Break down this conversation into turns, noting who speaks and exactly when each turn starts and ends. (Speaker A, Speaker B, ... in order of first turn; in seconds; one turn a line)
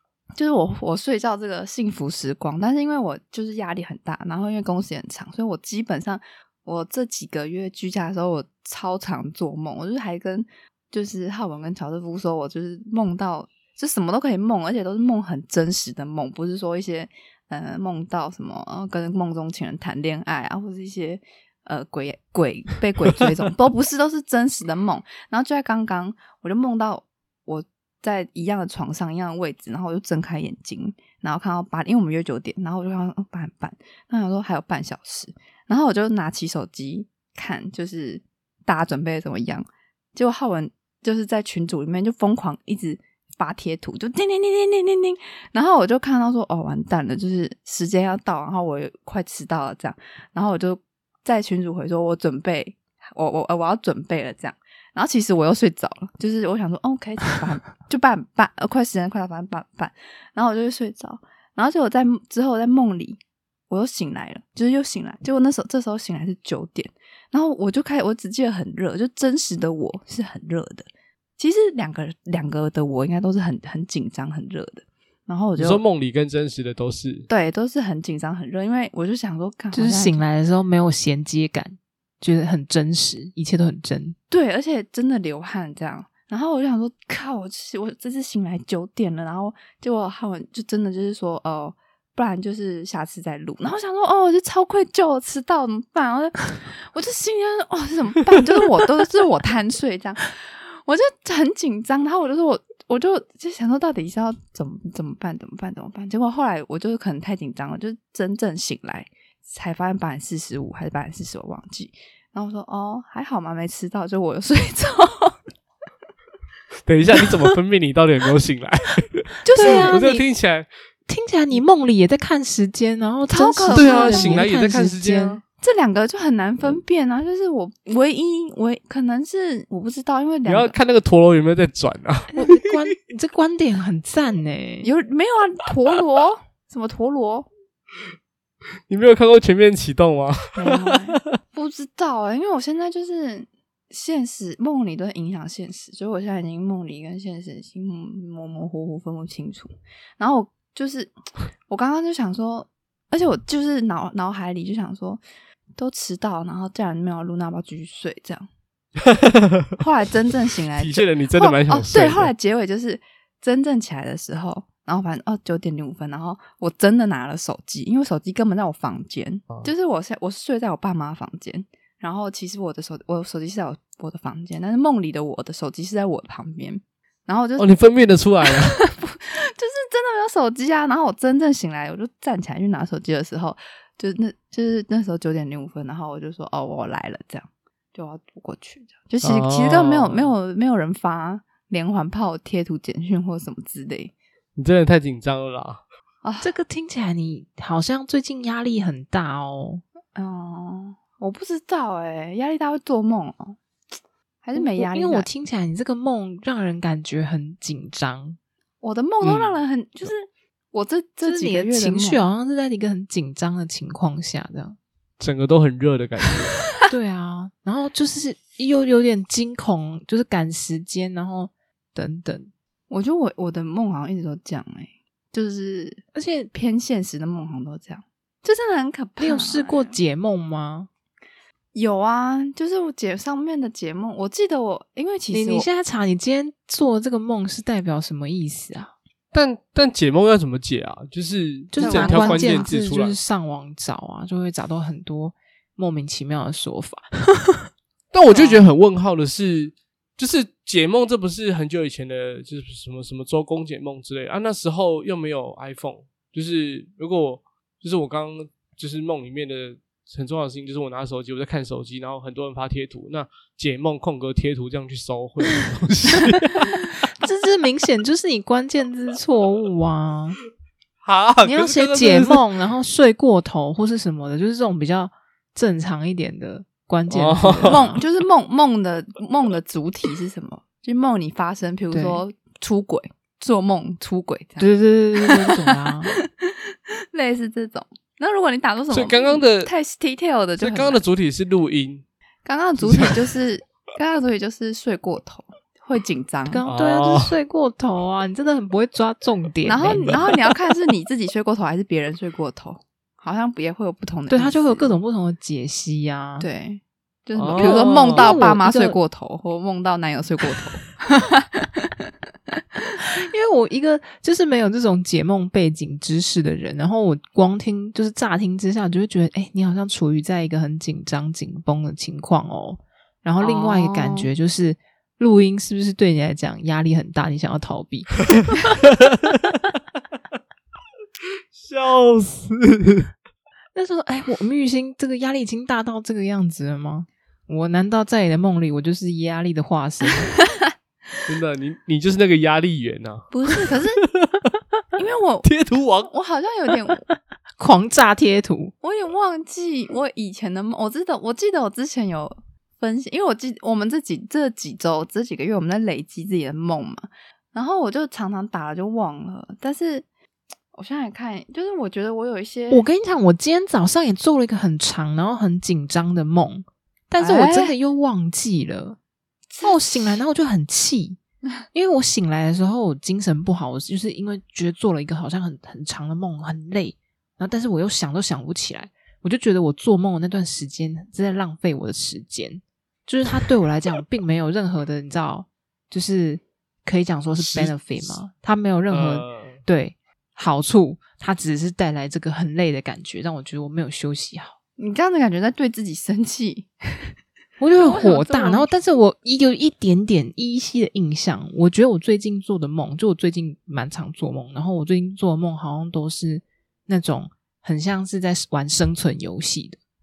Speaker A: 0.4-63.2
Speaker A: 63.7-75.8
Speaker B: 75.6-77.3
Speaker A: 77.3-80.2
Speaker C: 79.7-84.2
Speaker A: 84.3-115.4
Speaker B: 116.9-120.7
Speaker A: 117.2-117.4
Speaker A: 119.4-120.0
Speaker C: 119.5-120.2
Speaker C: 121.1-125.4
Speaker A: 123.3-124.5
Speaker B: 123.7-125.4
Speaker A: 125.6-130.8
Speaker B: 130.5-132.8
Speaker C: 132.3-134.9
Speaker A: 134.8-137.5
Speaker B: 138.9-141.3
Speaker A: 140.6-151.2
Speaker A: 151.7-155.2
Speaker A: 155.8-158.5
Speaker B: 159.1-159.8
Speaker A: 159.8-177.7
Speaker B: 160.8-162.3
Speaker B: 177.6-178.8
Speaker A: 178.5-194.1
Speaker B: 189.2-190.3
Speaker B: 194.6-195.8
Speaker A: 196.2-196.5
Speaker C: 196.4-199.8
Speaker A: 200.2-203.6
Speaker A: 204.4-205.3
Speaker C: 204.6-208.4
Speaker A: 208.8-212.2
Speaker B: 209.2-209.6
Speaker C: 211.2-214.8
Speaker B: 215.2-216.6
Speaker C: 216.9-222.5
Speaker A: 222.9-230.0
Speaker C: 226.1-226.5
Speaker C: 229.2-230.9
Speaker A: 231.8-235.7
Speaker C: 235.3-238.9
Speaker B: 239.3-243.2
Speaker C: 241.7-247.7
Speaker A: 241.8-242.7
Speaker B: 248.1-266.8
Speaker C: 267.2-270.4
Speaker B: 271.0-272.4
Speaker C: 271.4-278.0
Speaker B: 277.1-278.0
Speaker A: 277.6-284.7
Speaker C: 281.9-282.2
Speaker C: 284.6-286.1
Speaker A: 285.2-285.7
Speaker A: 286.4-291.0
Speaker B: 288.9-289.7
Speaker B: 290.6-292.1
Speaker A: 292.4-296.6
Speaker B: 292.8-293.2
Speaker C: 296.5-300.2
Speaker B: 296.7-297.3
Speaker A: 299.7-305.0
Speaker C: 304.3-306.5
Speaker A: 306.4-311.9
Speaker B: 307.4-308.4
Speaker C: 307.5-309.0
Speaker C: 313.1-328.7
Speaker A: 323.4-324.3
Speaker B: 329.1-329.6
Speaker B: 331.6-333.1
Speaker C: 333.8-340.3
Speaker B: 341.3-344.5
Speaker A: 343.3-344.0
Speaker A: 345.0-345.5
Speaker B: 345.4-346.1
Speaker A: 346.0-347.1
Speaker C: 347.6-348.7
Speaker A: 348.8-360.1
Speaker A: 360.7-362.9
Speaker C: 362.7-369.0
Speaker A: 367.2-367.7
Speaker A: 369.5-370.2
Speaker C: 369.6-371.2
Speaker C: 371.7-394.5
Speaker B: 387.4-388.2
Speaker B: 388.9-389.6
Speaker A: 394.8-397.1
Speaker C: 397.6-409.8
Speaker A: 397.8-398.7